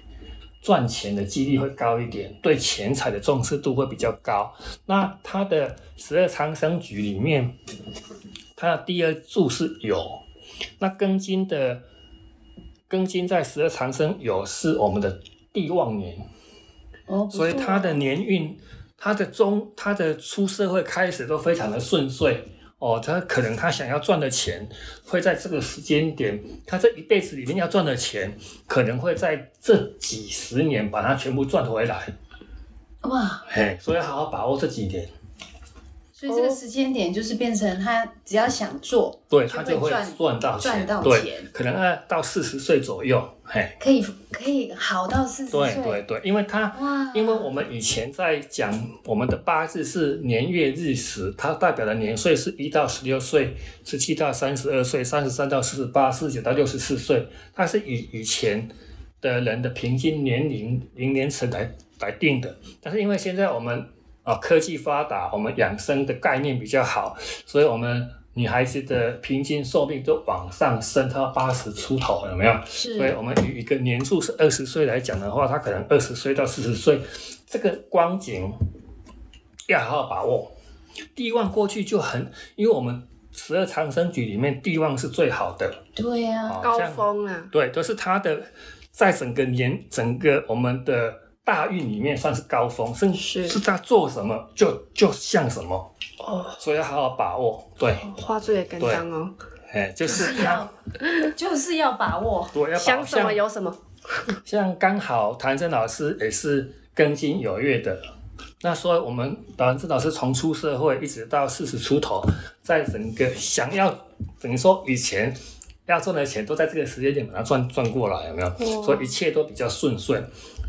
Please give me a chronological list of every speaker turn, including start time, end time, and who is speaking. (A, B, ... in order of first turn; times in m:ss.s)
0:00.6-0:07.6 A
0:08.6-0:10.2 A
0:10.8-0:11.8 A
0:12.9-0:16.2 A
0:17.1-0:18.0 B
0:17.3-0:32.1 A
0:33.0-0:33.4 B
0:33.5-0:35.1 A
0:36.2-0:41.5 B
0:36.3-0:36.6 C
0:39.3-0:43.8 A
0:43.8-0:46.0 B
0:45.5-1:18.6 A
0:46.7-0:47.5 B
1:12.7-1:13.2 B
1:19.7-1:20.5 A
1:21.1-1:25.8 A
1:26.0-1:26.7 B
1:26.4-1:35.9 A
1:26.6-1:27.5 C
1:33.2-1:33.6 C
1:36.2-1:36.6 C
1:36.6-1:38.1 A
1:38.0-1:39.3 C
1:38.8-1:39.0 A
1:39.7-1:40.6 A
1:40.0-1:40.7 B
1:41.2-1:42.6 B
1:42.5-1:43.4 A
1:42.8-1:44.3 C
1:44.4-1:48.0 A
1:48.6-2:00.3 A
1:58.6-1:59.1 C